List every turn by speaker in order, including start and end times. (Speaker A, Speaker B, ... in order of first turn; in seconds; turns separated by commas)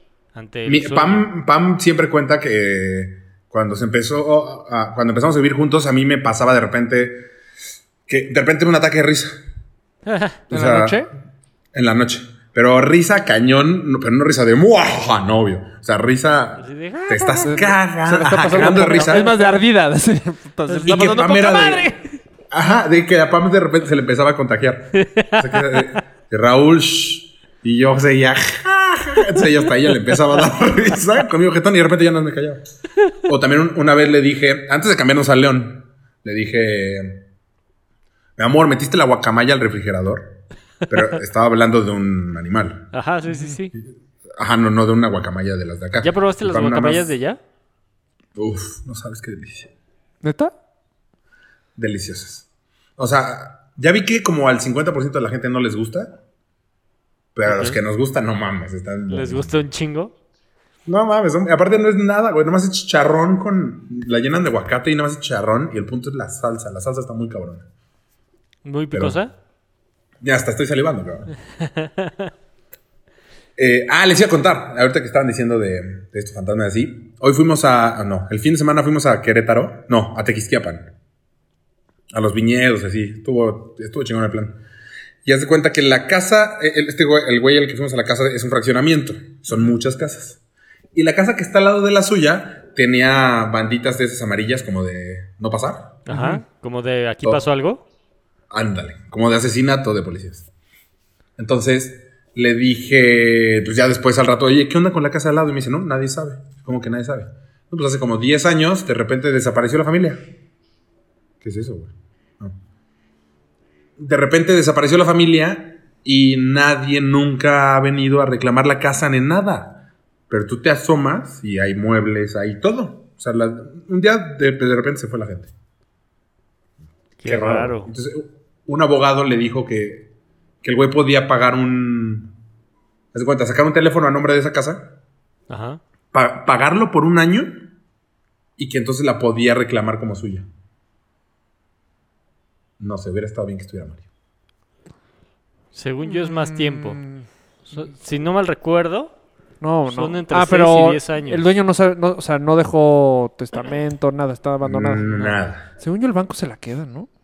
Speaker A: 0.3-1.3, Speaker B: 0.7-7.2, Speaker B: 8.1-9.4, Speaker A: 10.1-10.4, Speaker B: 10.5-11.0, Speaker C: 10.5-11.1, Speaker B: 11.7-19.3, Speaker A: 16.6-17.7, Speaker C: 17.4-22.0, Speaker A: 18.4-19.4, Speaker B: 20.8-21.9, Speaker B: 22.5-32.6, Speaker A: 24.9-26.0, Speaker B: 33.3-37.2, Speaker B: 38.4-42.9, Speaker A: 42.9-43.7, Speaker C: 43.3-43.6, Speaker B: 44.4-47.1, Speaker A: 46.0-47.4, Speaker B: 48.4-49.7, Speaker C: 50.2-50.5, Speaker B: 51.8-52.5, Speaker B: 53.0-56.1, Speaker B: 57.4-59.6, Speaker A: 57.5-57.8, Speaker A: 59.1-60.1, Speaker B: 60.9-67.7, Speaker A: 68.6-69.3, Speaker B: 68.9-69.2, Speaker B: 70.2-71.3, Speaker A: 71.6-72.3, Speaker B: 73.6-80.9, Speaker B: 82.1-84.6, Speaker B: 85.2-90.4, Speaker C: 89.5-89.8, Speaker B: 90.9-96.0, Speaker A: 96.1-97.8, Speaker C: 96.1-96.4, Speaker B: 98.5-100.5, Speaker B: 101.4-110.2, Speaker B: 111.4-112.5, Speaker B: 114.0-125.5, Speaker A: 127.2-127.9, Speaker B: 127.2-130.1, Speaker B: 130.6-132.3, Speaker B: 133.1-134.9, Speaker A: 135.5-135.8, Speaker B: 136.1-137.7, Speaker B: 138.6-140.5, Speaker B: 142.8-144.0, Speaker A: 145.7-147.0, Speaker C: 146.0-147.9, Speaker A: 147.7-149.1, Speaker C: 149.6-157.1, Speaker A: 149.9-151.5, Speaker B: 154.6-155.7